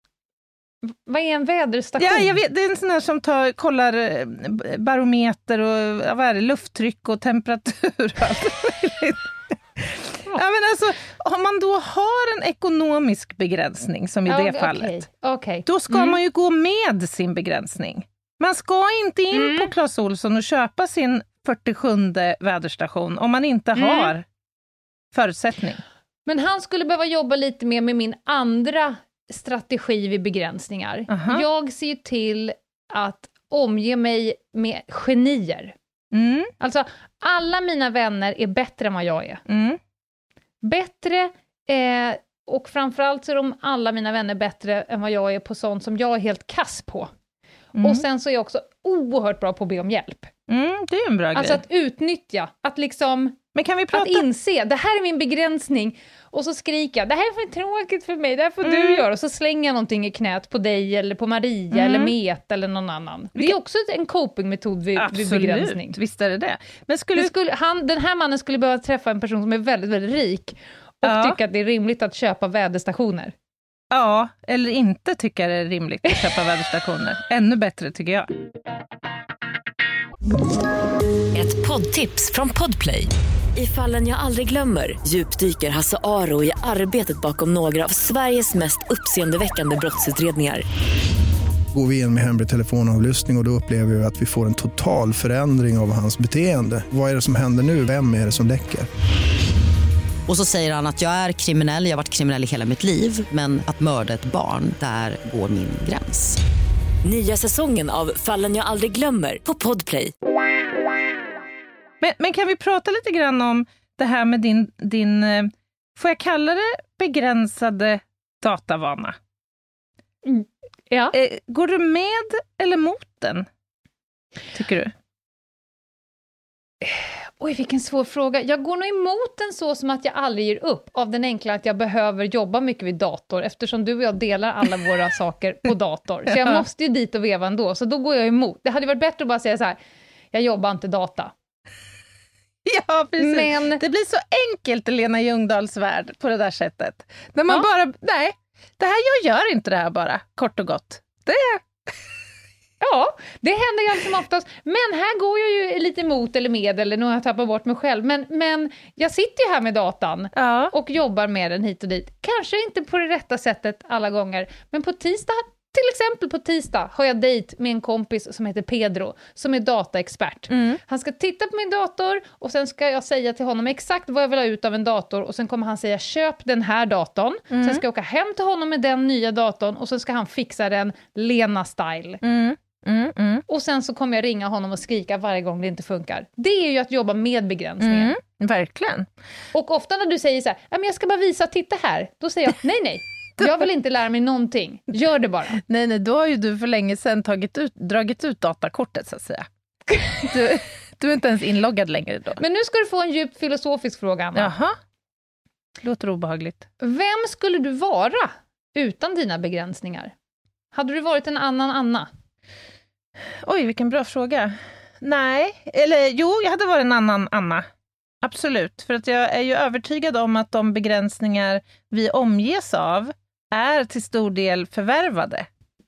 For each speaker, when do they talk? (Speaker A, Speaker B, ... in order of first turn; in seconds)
Speaker A: 0.9-2.4, 14.3-16.2, 19.3-19.7, 23.8-24.1, 26.3-35.8, 36.6-39.4, 40.6-47.1, 47.8-50.3, 51.3-53.4, 53.9-66.0, 67.2-73.3, 120.2-121.2, 126.8-139.8, 140.3-141.3, 143.2-143.8, 152.8-182.2, 183.5-188.1, 189.5-195.6, 199.9-200.4, 202.4-204.5, 206.8-210.1, 210.7-212.1
Speaker B: 2.0-15.0, 15.7-24.2, 25.1-25.8, 31.1-31.4, 36.1-36.5, 39.5-39.8, 47.8-48.0, 50.5-51.6, 53.5-54.2, 58.6-59.1, 61.7-62.1, 65.0-67.3, 71.0-71.4, 73.9-78.3, 112.0-119.2, 121.1-123.5, 124.5-124.9, 136.3-136.6, 142.7-151.6, 160.3-160.7, 170.5-170.8, 177.5-177.8, 182.2-183.4, 187.8-189.1, 193.4-193.7, 195.6-199.5, 200.2-202.4, 204.3-204.8, 205.8-206.7, 213.4-217.7, 218.2-225.5
Speaker C: 81.3-90.6, 107.0-110.1
Speaker D: 91.7-98.9
Speaker E: 100.3-106.4